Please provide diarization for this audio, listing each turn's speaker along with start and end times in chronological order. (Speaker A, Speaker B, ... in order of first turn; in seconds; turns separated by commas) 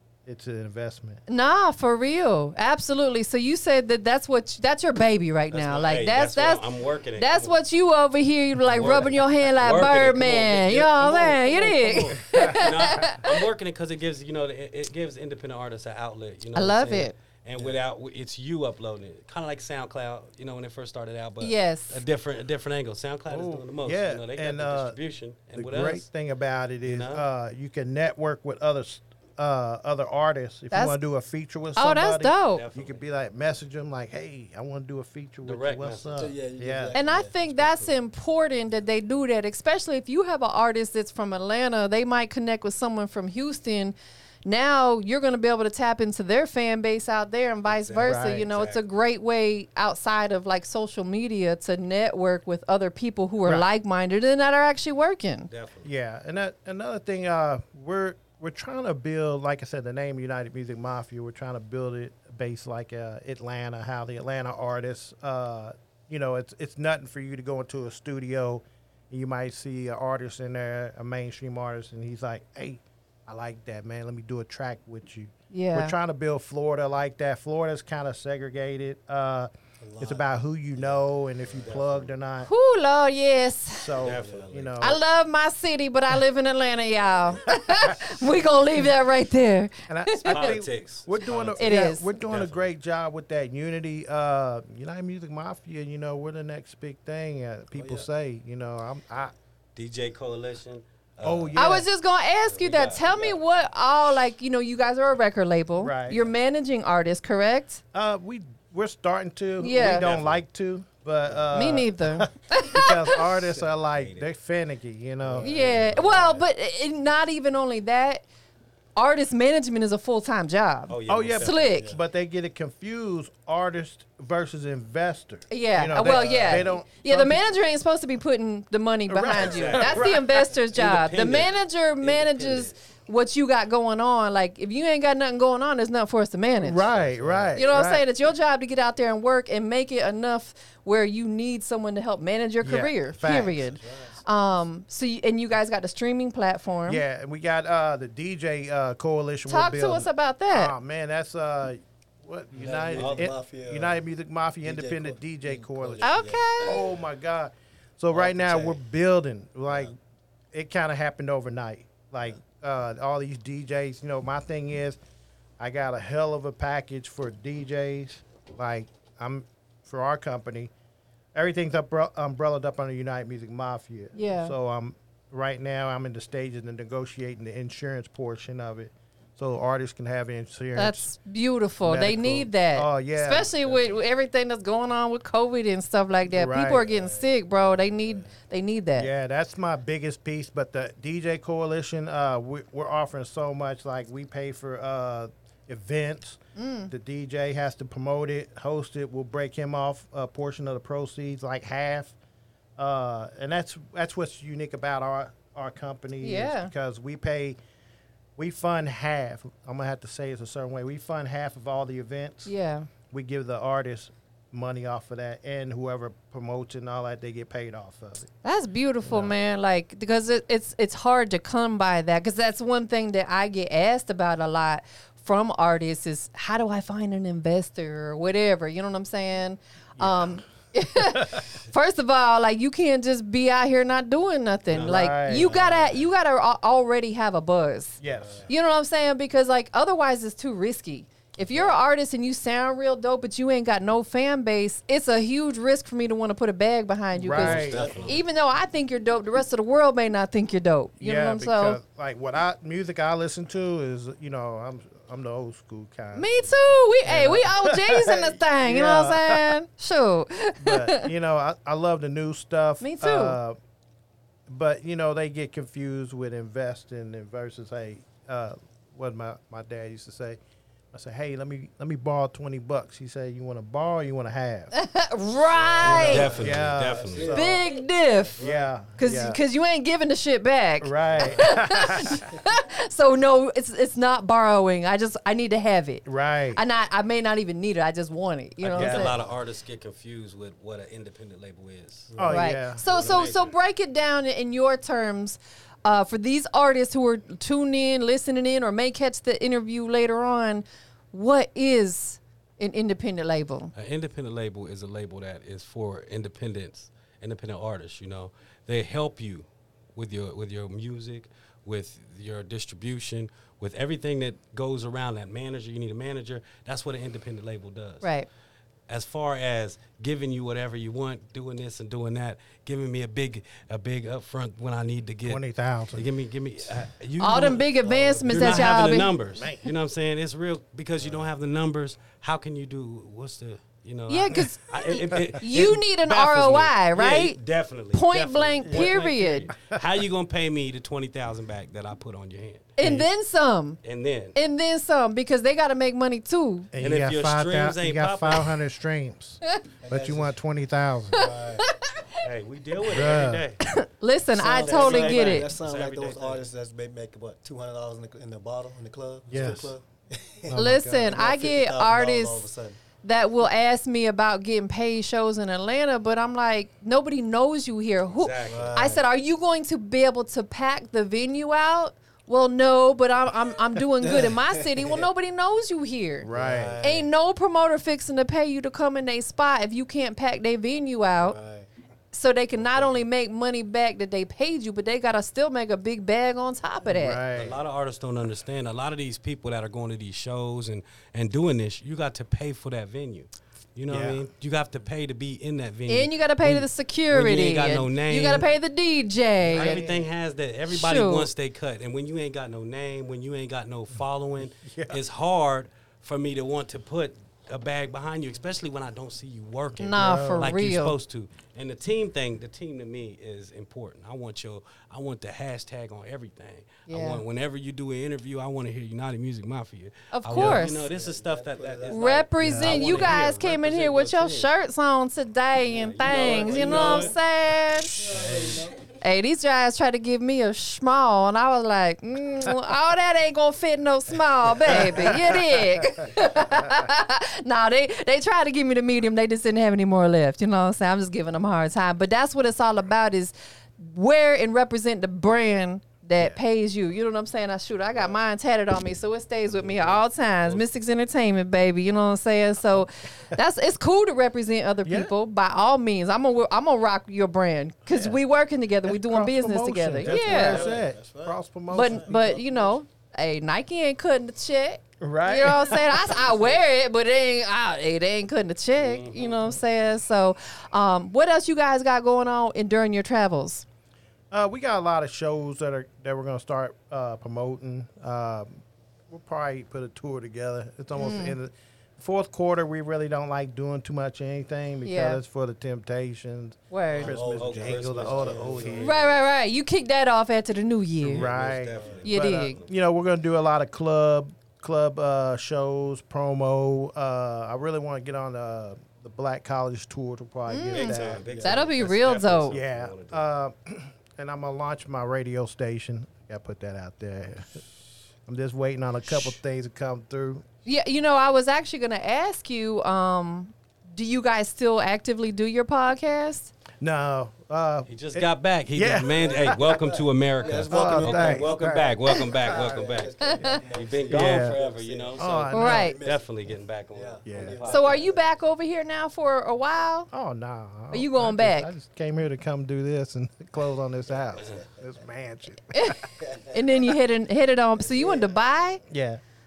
Speaker A: 0.3-1.2, Speaker B: 1.3-6.7, Speaker C: 5.5-7.5, Speaker B: 7.2-13.4, Speaker C: 8.7-26.1, Speaker A: 12.3-12.6, Speaker B: 16.6-17.2, Speaker B: 21.4-22.0, Speaker A: 23.3-25.0, Speaker A: 25.5-37.0, Speaker C: 26.9-27.2, Speaker B: 30.7-31.0, Speaker B: 31.8-32.6, Speaker C: 32.5-33.0, Speaker C: 35.4-36.3, Speaker D: 36.2-37.9, Speaker B: 36.9-55.5, Speaker C: 47.7-48.8, Speaker A: 48.0-48.5, Speaker C: 55.5-55.9, Speaker A: 55.8-82.5, Speaker B: 75.5-76.0, Speaker D: 79.8-82.1, Speaker B: 82.4-84.0, Speaker A: 83.7-85.0, Speaker C: 84.0-84.8, Speaker D: 84.0-84.5, Speaker B: 84.8-90.5, Speaker A: 87.5-88.2, Speaker A: 89.9-99.3, Speaker C: 90.2-92.7, Speaker B: 91.6-92.1, Speaker D: 97.7-98.1, Speaker C: 99.8-101.6, Speaker A: 101.2-101.9, Speaker B: 101.6-107.8, Speaker C: 102.5-103.4, Speaker A: 105.8-106.3, Speaker A: 107.9-115.8, Speaker B: 109.6-110.1, Speaker C: 109.7-110.4, Speaker D: 111.3-111.6, Speaker B: 111.5-113.2, Speaker C: 114.0-114.2, Speaker D: 115.2-116.4, Speaker B: 115.4-118.2, Speaker B: 119.0-121.9, Speaker C: 120.9-121.9, Speaker A: 121.1-127.4, Speaker B: 125.5-136.9, Speaker D: 126.2-126.7, Speaker A: 129.1-130.5, Speaker C: 129.4-132.7, Speaker A: 136.6-138.0, Speaker D: 136.9-137.6, Speaker B: 137.6-147.0, Speaker A: 142.6-143.7, Speaker D: 143.4-144.2, Speaker A: 146.9-159.9, Speaker B: 149.5-150.7, Speaker D: 152.5-154.0, Speaker C: 152.9-153.3, Speaker D: 154.6-156.9, Speaker B: 156.0-156.8, Speaker D: 158.1-158.8, Speaker D: 159.7-159.9, Speaker A: 160.5-165.0, Speaker A: 165.6-170.7, Speaker A: 171.3-181.1, Speaker B: 174.2-174.5, Speaker B: 180.8-189.1, Speaker A: 181.8-183.5, Speaker A: 186.3-186.9, Speaker D: 186.8-188.3, Speaker A: 189.0-202.2, Speaker B: 196.6-196.9, Speaker A: 202.8-207.6, Speaker B: 206.2-206.7, Speaker A: 208.4-212.5, Speaker B: 212.5-212.9, Speaker A: 213.1-218.3, Speaker B: 218.4-251.8, Speaker A: 219.0-219.3, Speaker A: 230.0-230.4, Speaker A: 231.0-231.5, Speaker C: 234.7-236.0, Speaker A: 234.8-235.5, Speaker D: 235.4-236.0, Speaker A: 238.0-238.5, Speaker D: 238.0-238.5, Speaker A: 247.1-247.9, Speaker C: 247.3-248.2, Speaker D: 247.4-248.2, Speaker A: 251.0-256.5, Speaker B: 256.1-261.1, Speaker A: 257.1-259.6, Speaker A: 260.6-263.6, Speaker B: 262.8-263.4, Speaker A: 264.5-270.4, Speaker A: 270.9-274.7, Speaker B: 274.7-276.4, Speaker C: 275.8-277.4, Speaker D: 275.8-277.7, Speaker A: 275.8-277.6, Speaker B: 277.3-278.4, Speaker D: 278.2-278.7, Speaker A: 278.4-279.4, Speaker B: 279.0-289.1, Speaker A: 280.8-282.2, Speaker D: 281.1-282.4, Speaker A: 286.1-286.6, Speaker C: 288.6-292.1, Speaker A: 288.8-289.2, Speaker D: 292.1-292.4, Speaker A: 292.2-292.8, Speaker B: 292.3-303.7, Speaker C: 292.8-293.5, Speaker C: 303.8-318.1, Speaker B: 318.0-318.3, Speaker C: 318.9-342.8, Speaker A: 325.2-326.1, Speaker B: 327.2-329.1, Speaker D: 327.9-328.3, Speaker A: 328.3-329.7, Speaker B: 334.1-337.4, Speaker A: 335.1-335.4, Speaker B: 337.9-339.5, Speaker B: 342.8-343.8, Speaker A: 342.8-343.1, Speaker C: 343.8-344.4, Speaker B: 344.4-346.7, Speaker A: 346.7-351.3, Speaker C: 346.8-348.6, Speaker D: 349.8-350.4, Speaker D: 351.1-351.7, Speaker B: 351.6-352.2, Speaker C: 352.2-353.6, Speaker A: 352.8-353.5, Speaker B: 353.7-355.5, Speaker D: 354.3-362.8, Speaker C: 354.6-356.4, Speaker A: 359.3-359.7, Speaker A: 360.5-361.2, Speaker B: 360.6-362.5, Speaker B: 363.0-376.3, Speaker C: 368.1-368.9, Speaker D: 368.5-369.0, Speaker D: 374.0-375.1, Speaker A: 376.2-376.8, Speaker D: 376.3-377.1, Speaker B: 376.8-381.4, Speaker D: 381.2-381.7, Speaker B: 382.1-387.2, Speaker A: 386.9-387.6, Speaker C: 387.3-398.5, Speaker A: 393.9-394.2, Speaker B: 395.9-399.9, Speaker A: 399.4-400.1, Speaker C: 399.5-424.5, Speaker B: 400.7-401.3, Speaker A: 404.6-405.0, Speaker B: 409.8-410.9, Speaker A: 409.9-410.5, Speaker B: 416.9-417.2, Speaker B: 420.1-420.9, Speaker A: 420.4-420.7, Speaker D: 420.6-422.1, Speaker B: 421.9-428.0, Speaker A: 422.4-422.9, Speaker D: 422.6-423.5, Speaker C: 425.7-427.1, Speaker D: 425.9-427.2, Speaker D: 427.9-428.8, Speaker A: 428.1-428.7, Speaker B: 429.0-460.7, Speaker A: 434.6-436.8, Speaker C: 449.6-450.6, Speaker A: 454.9-455.1, Speaker A: 457.9-458.2, Speaker A: 458.8-462.1, Speaker D: 460.0-462.8, Speaker B: 461.7-473.6, Speaker A: 465.0-466.2, Speaker D: 466.2-466.5, Speaker C: 468.8-469.6, Speaker A: 474.3-488.9, Speaker B: 480.9-481.4, Speaker B: 484.8-485.2, Speaker B: 486.7-487.2, Speaker D: 486.9-489.0, Speaker C: 487.2-489.2, Speaker B: 488.8-491.2, Speaker A: 491.0-501.2, Speaker C: 491.1-492.7, Speaker D: 491.6-492.1, Speaker B: 492.1-492.6, Speaker B: 500.5-502.6, Speaker C: 500.7-503.2, Speaker D: 501.0-501.6, Speaker A: 502.5-507.6, Speaker A: 508.3-510.4, Speaker B: 510.6-516.5, Speaker A: 516.8-519.6, Speaker C: 517.9-528.0, Speaker D: 519.1-526.3, Speaker A: 520.5-522.6, Speaker B: 523.2-523.6, Speaker A: 524.1-524.6, Speaker A: 525.2-525.9, Speaker B: 525.5-526.0, Speaker D: 526.9-528.2, Speaker A: 527.3-527.6, Speaker B: 527.7-530.1, Speaker A: 530.1-536.0, Speaker B: 530.9-531.7, Speaker D: 534.1-534.9, Speaker B: 535.7-538.8, Speaker D: 536.2-536.9, Speaker D: 537.8-538.4, Speaker A: 538.9-539.2